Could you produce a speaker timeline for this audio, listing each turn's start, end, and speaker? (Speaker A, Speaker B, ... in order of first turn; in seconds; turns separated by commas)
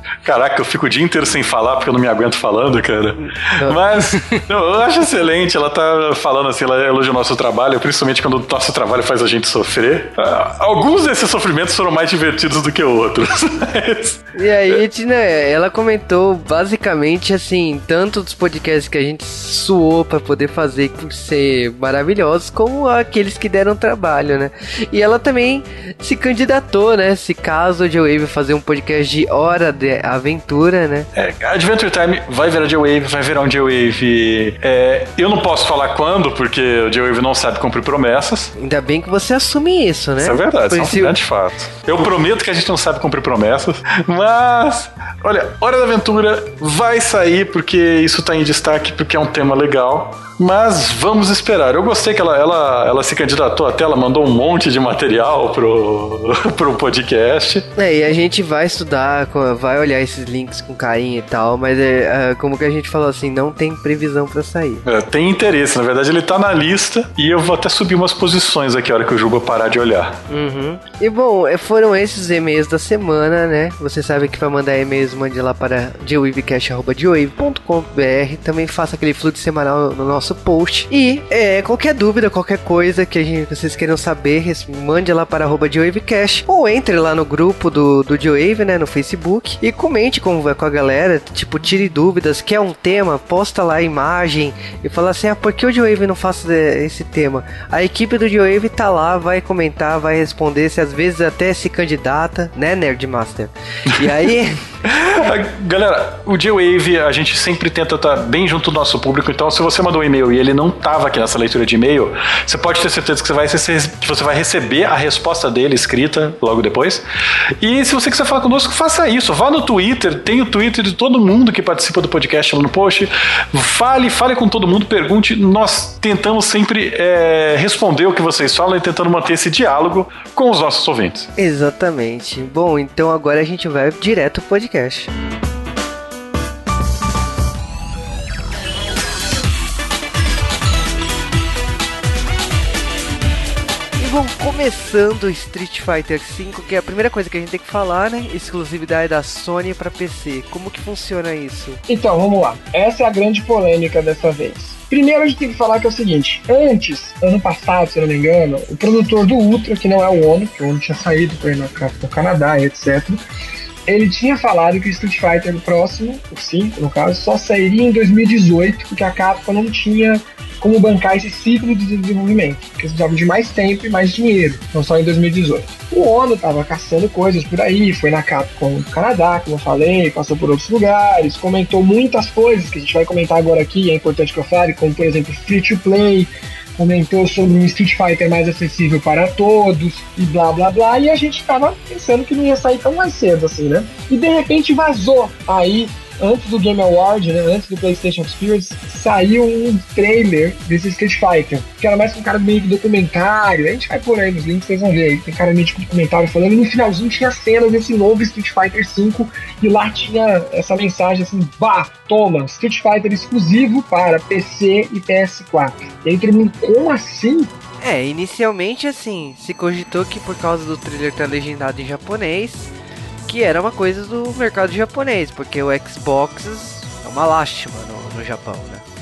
Speaker A: 0.2-14.8, Speaker B: 3.2-4.4, Speaker B: 14.3-31.1, Speaker A: 31.1-38.5, Speaker B: 38.6-41.1, Speaker A: 40.2-57.7, Speaker B: 57.8-64.8, Speaker A: 64.8-70.2, Speaker B: 70.3-104.6, Speaker A: 104.8-117.0, Speaker A: 117.6-131.3, Speaker B: 131.4-135.1, Speaker B: 144.0-151.8, Speaker C: 151.9-163.2, Speaker C: 163.9-217.5, Speaker B: 217.8-222.7, Speaker B: 223.3-228.8